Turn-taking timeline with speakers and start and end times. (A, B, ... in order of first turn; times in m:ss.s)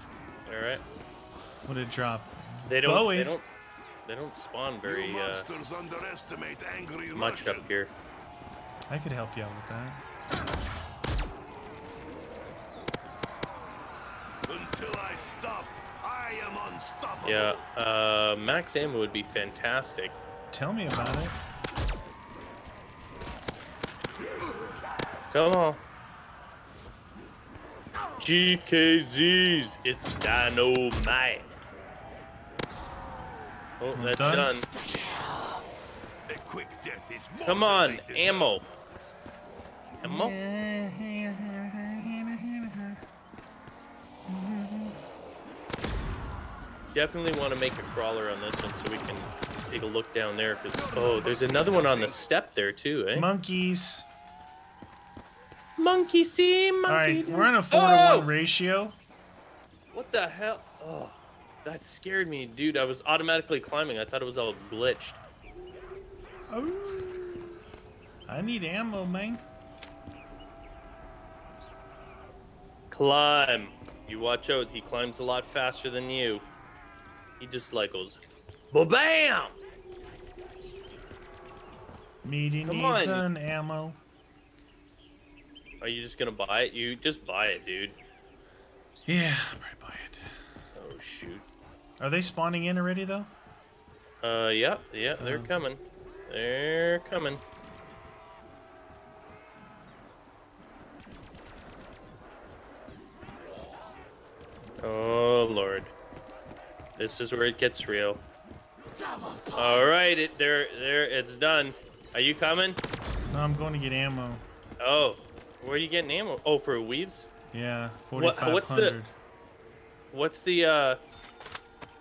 0:00.4-0:00.8 A
0:01.6-0:03.3 B
0:02.7-0:03.4 A
0:04.0-0:05.4 A
0:04.8-0:07.7 C
0:07.1-0:07.9 A
0:08.9-0:10.0 B
0:14.4-0:17.6 C
0:17.2-0:20.1 A
0:20.5-0:21.4 B
0:25.3-0:25.8 A
0:28.2-0:31.5 A
0:33.8-0:34.7 A
0:33.9-0:34.5 B
0:36.3-0:38.5 C
0:37.4-0:38.6 A
0:40.0-0:40.4 A
0:40.0-0:43.0 B
0:44.3-0:45.0 B
0:46.9-0:53.3 A
0:50.7-0:52.3 C
0:53.1-0:54.0 B
0:55.8-0:58.3 A
0:56.9-0:59.0 B
0:59.9-1:05.2 A
1:06.5-1:07.5 B
1:08.2-1:09.4 B
1:12.9-1:16.4 A
1:17.4-1:19.5 A
1:22.2-1:24.0 B
1:22.6-1:23.2 A
1:25.8-1:28.0 A
1:29.0-1:30.3 B
1:30.7-1:31.4 A
1:32.0-1:33.3 B
1:34.2-1:37.4 A
1:35.2-1:35.5 B
1:44.8-1:45.9 A
1:47.0-1:48.2 A
1:49.5-1:52.8 A
1:53.3-1:54.4 B
1:54.8-1:57.3 A
1:57.5-1:59.1 B
1:58.2-1:59.0 A
2:00.1-2:01.0 A